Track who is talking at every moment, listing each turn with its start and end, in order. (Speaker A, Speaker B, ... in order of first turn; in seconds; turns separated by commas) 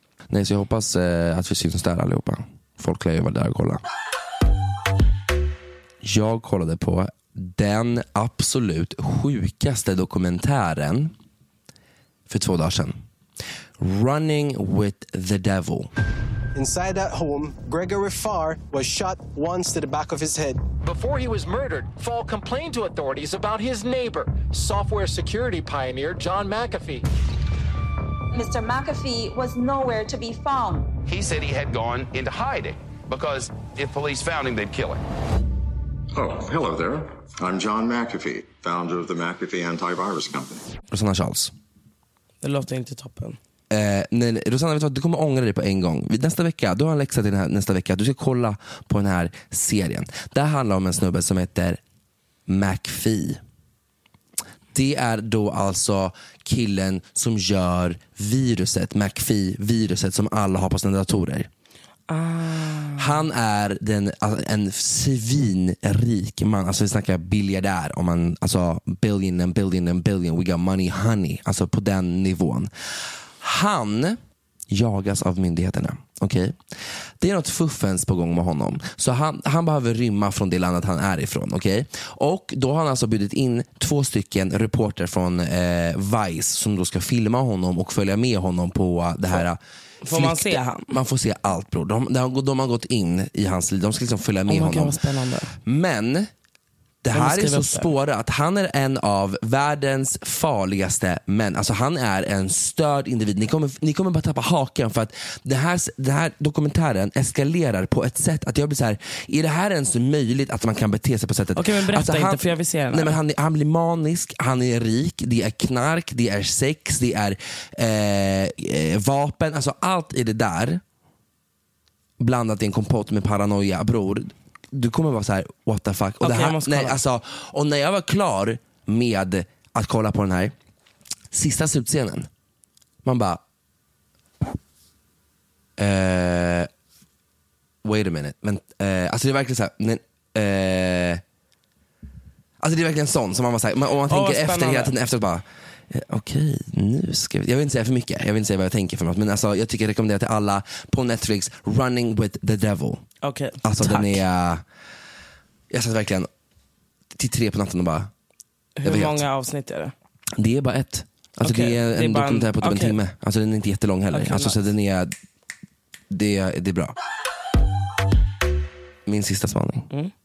Speaker A: 0.3-3.8, Speaker A: 6.0-11.1, Speaker A: 12.3-13.0, Speaker A: 13.8-15.9, Speaker B: 16.6-20.6, Speaker C: 20.8-27.0, Speaker D: 28.3-30.9, Speaker E: 31.1-35.0, Speaker F: 36.1-40.6, Speaker A: 40.9-41.5, Speaker G: 42.4-43.4, Speaker A: 43.7-51.8, Speaker A: 52.5-53.4, Speaker A: 54.7-61.5, Speaker G: 62.1-63.2, Speaker A: 63.0-72.7, Speaker A: 73.4-76.6, Speaker A: 77.2-95.0, Speaker G: 90.0-91.0, Speaker G: 94.5-95.6, Speaker A: 95.6-96.3, Speaker A: 97.0-120.8, Speaker G: 97.1-97.9, Speaker G: 111.5-113.2, Speaker A: 122.2-130.5, Speaker G: 126.2-127.0, Speaker A: 131.3-132.3, Speaker A: 133.0-133.4, Speaker A: 135.8-136.7, Speaker A: 137.8-141.2, Speaker A: 142.6-153.0, Speaker G: 144.1-144.9, Speaker G: 153.2-154.2, Speaker A: 153.6-154.6, Speaker A: 155.7-156.3, Speaker A: 157.1-158.1, Speaker G: 158.8-159.9, Speaker A: 158.8-159.2, Speaker A: 160.4-165.1, Speaker G: 161.4-163.0, Speaker G: 164.1-164.6, Speaker A: 166.1-166.9, Speaker A: 169.1-169.9